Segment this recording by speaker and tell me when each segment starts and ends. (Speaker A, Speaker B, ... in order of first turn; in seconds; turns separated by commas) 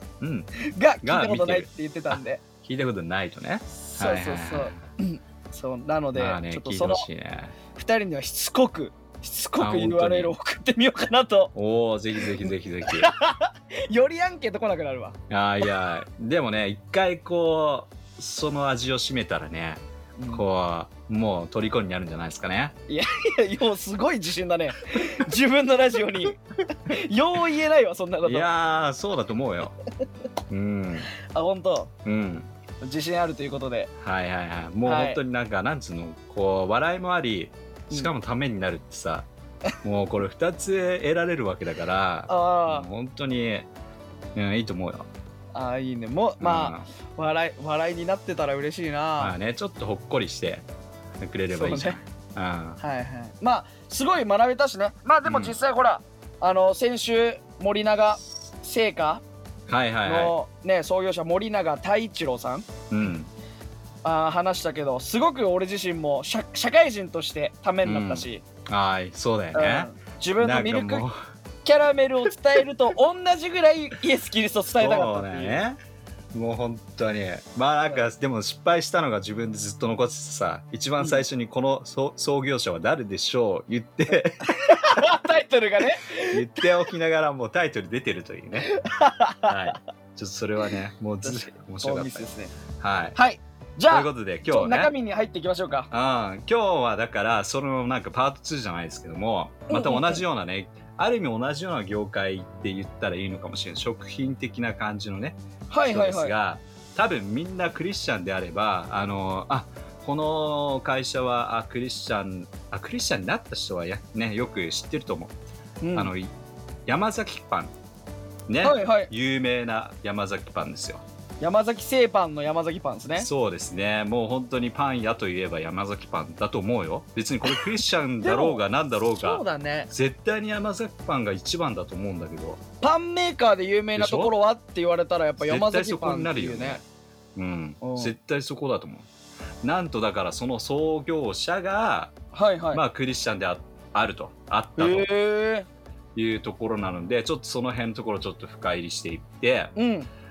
Speaker A: 0.2-0.5, Speaker B: 0.6-2.4, Speaker A: 1.0-4.8, Speaker B: 3.9-7.1, Speaker A: 6.2-7.5, Speaker B: 7.7-11.5, Speaker A: 9.6-10.3, Speaker A: 11.6-13.1, Speaker B: 12.8-15.2, Speaker A: 15.3-22.8, Speaker B: 20.2-20.4, Speaker B: 22.9-28.5, Speaker A: 28.2-29.7, Speaker A: 30.5-31.1, Speaker B: 31.2-31.9, Speaker A: 32.0-32.5, Speaker B: 32.8-33.9, Speaker A: 34.0-39.3, Speaker B: 34.9-35.2, Speaker A: 39.8-43.7, Speaker B: 42.3-42.9, Speaker A: 44.4-45.1, Speaker B: 45.5-49.4, Speaker A: 46.4-46.9, Speaker A: 49.2-50.7, Speaker A: 51.2-52.8, Speaker B: 51.5-52.0, Speaker B: 52.8-59.2, Speaker A: 55.2-55.5, Speaker A: 59.7-60.3, Speaker B: 60.0-62.7, Speaker A: 62.9-63.3, Speaker B: 64.0-68.4, Speaker A: 67.8-71.1, Speaker B: 69.5-71.1, Speaker B: 71.7-75.6, Speaker A: 74.8-75.8, Speaker A: 76.3-85.1, Speaker B: 84.4-86.6, Speaker A: 86.3-88.7, Speaker B: 88.6-89.6, Speaker A: 89.4-92.2, Speaker B: 91.2-92.5, Speaker A: 92.8-93.2, Speaker B: 93.2-95.9, Speaker A: 93.9-94.9, Speaker A: 95.9-115.3, Speaker B: 99.7-100.2, Speaker B: 105.7-106.3, Speaker B: 115.8-116.1, Speaker A: 115.9-116.3, Speaker A: 116.9-117.7, Speaker A: 118.5-121.0, Speaker B: 118.6-119.1, Speaker B: 121.4-123.3, Speaker A: 123.2-132.6, Speaker B: 128.2-128.6, Speaker B: 129.2-129.9, Speaker B: 132.8-136.8, Speaker A: 133.9-134.3, Speaker A: 135.4-136.8, Speaker A: 137.4-139.1, Speaker B: 137.8-138.2, Speaker A: 139.6-142.2, Speaker B: 142.3-142.8, Speaker A: 142.7-145.1, Speaker B: 144.8-145.7, Speaker A: 146.2-149.7, Speaker B: 149.8-150.1